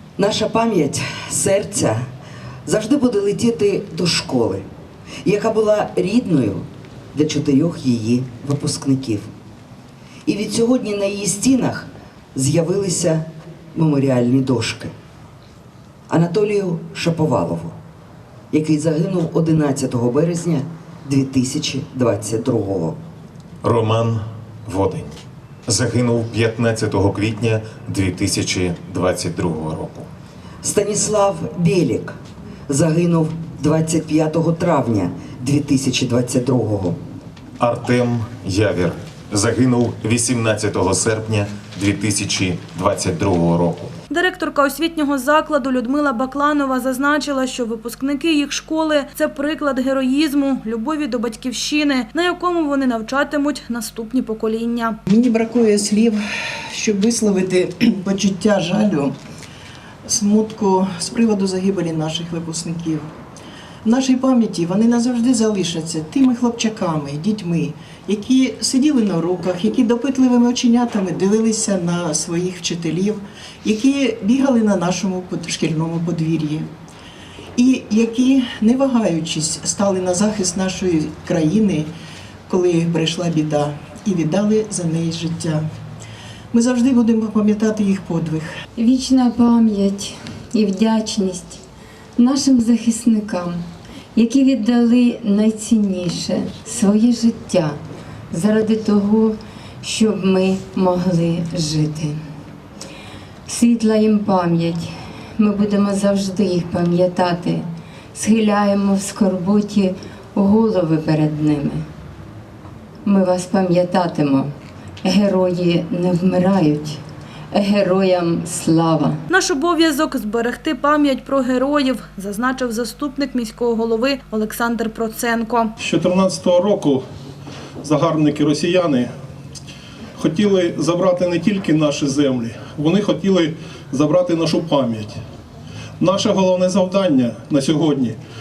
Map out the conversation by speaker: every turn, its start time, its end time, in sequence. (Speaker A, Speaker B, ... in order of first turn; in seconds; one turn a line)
Speaker A: 0.2-2.0
Speaker A: 2.7-4.7
Speaker A: 5.2-9.3
Speaker A: 10.3-14.9
Speaker A: 16.1-17.8
Speaker A: 18.5-23.0
Speaker B: 23.6-30.1
Speaker A: 30.6-32.2
Speaker A: 32.7-37.0
Speaker B: 37.6-43.9
Speaker C: 44.1-55.0
Speaker D: 55.1-59.1
Speaker D: 60.1-63.1
Speaker D: 63.8-76.7
Speaker D: 77.6-81.9
Speaker D: 82.5-85.6
Speaker D: 86.5-88.5
Speaker E: 88.8-91.6
Speaker E: 92.2-93.6
Speaker E: 94.2-97.8
Speaker E: 98.3-102.2
Speaker E: 103.5-111.8
Speaker E: 113.1-114.5
Speaker E: 115.0-117.0
Speaker E: 117.5-119.2
Speaker C: 119.3-125.7
Speaker F: 125.8-127.0
Speaker F: 127.8-129.1
Speaker F: 130.2-135.2
Speaker F: 136.0-138.2